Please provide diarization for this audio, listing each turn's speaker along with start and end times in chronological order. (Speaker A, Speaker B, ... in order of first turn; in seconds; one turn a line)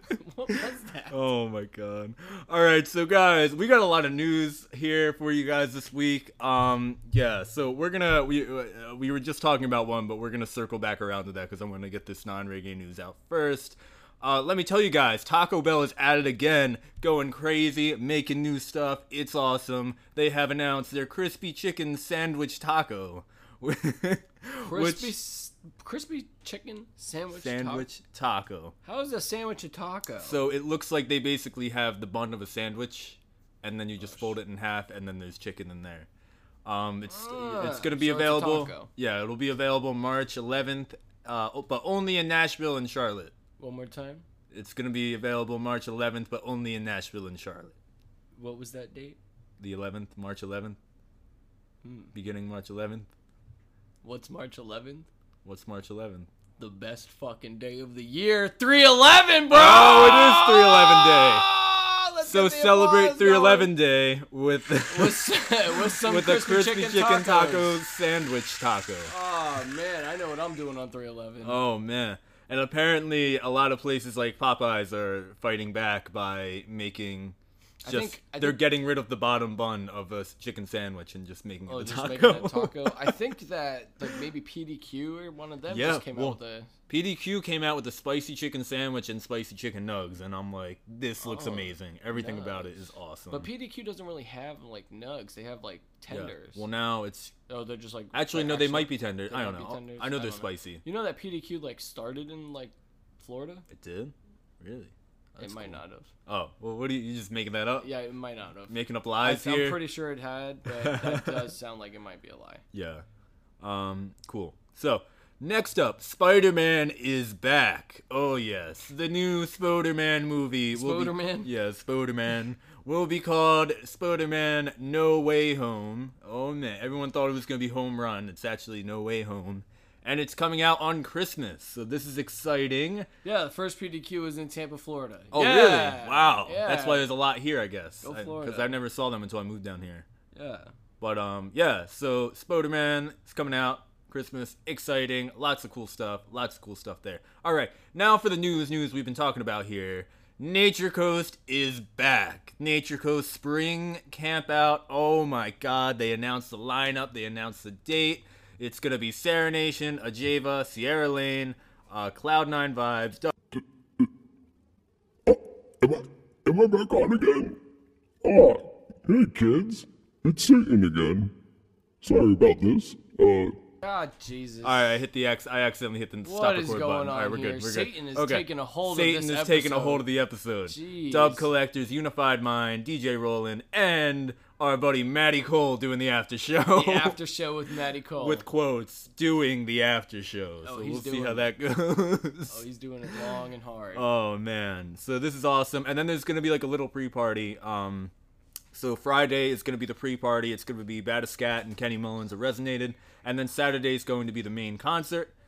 Speaker A: 0.1-1.2
Speaker B: 1.1-25.1
Speaker A: 24.6-27.9
Speaker B: 27.3-28.7
Speaker A: 28.8-30.4
Speaker B: 30.2-36.1
Speaker A: 34.0-34.3
Speaker B: 36.6-43.3
Speaker A: 37.1-38.9
Speaker A: 43.6-44.2
Speaker B: 44.5-47.7
Speaker A: 48.4-49.2
Speaker B: 49.6-50.8
Speaker A: 51.8-52.1
Speaker B: 52.1-53.1
Speaker A: 54.0-55.1
Speaker B: 55.4-56.3
Speaker A: 56.6-63.7
Speaker B: 59.5-61.5
Speaker B: 62.2-69.1
Speaker A: 64.8-67.8
Speaker A: 69.0-71.6
Speaker B: 71.4-83.2
Speaker A: 77.8-78.6
Speaker A: 81.7-86.7
Speaker B: 85.7-93.5
Speaker A: 91.2-96.6
Speaker B: 96.1-97.3
Speaker A: 97.5-103.7
Speaker B: 98.1-100.8
Speaker B: 103.7-107.9
Speaker A: 105.4-106.1
Speaker A: 107.8-112.6
Speaker B: 108.7-109.8
Speaker B: 110.7-111.5
Speaker B: 112.7-113.0
Speaker B: 113.6-133.1
Speaker A: 120.7-121.5
Speaker A: 133.2-137.1
Speaker B: 135.3-140.1
Speaker A: 138.0-138.8
Speaker A: 140.3-140.7
Speaker B: 141.0-163.3
Speaker C: 163.5-164.1
Speaker C: 165.2-167.6
Speaker C: 168.2-171.3
Speaker C: 172.0-173.6
Speaker A: 173.8-175.0
Speaker B: 174.6-187.2
Speaker A: 176.2-180.0
Speaker A: 180.7-181.5
Speaker A: 186.7-188.4
Speaker B: 188.2-193.3
Speaker A: 190.6-191.5
Speaker A: 192.5-194.1
Speaker B: 193.9-198.1
Speaker B: 198.7-205.3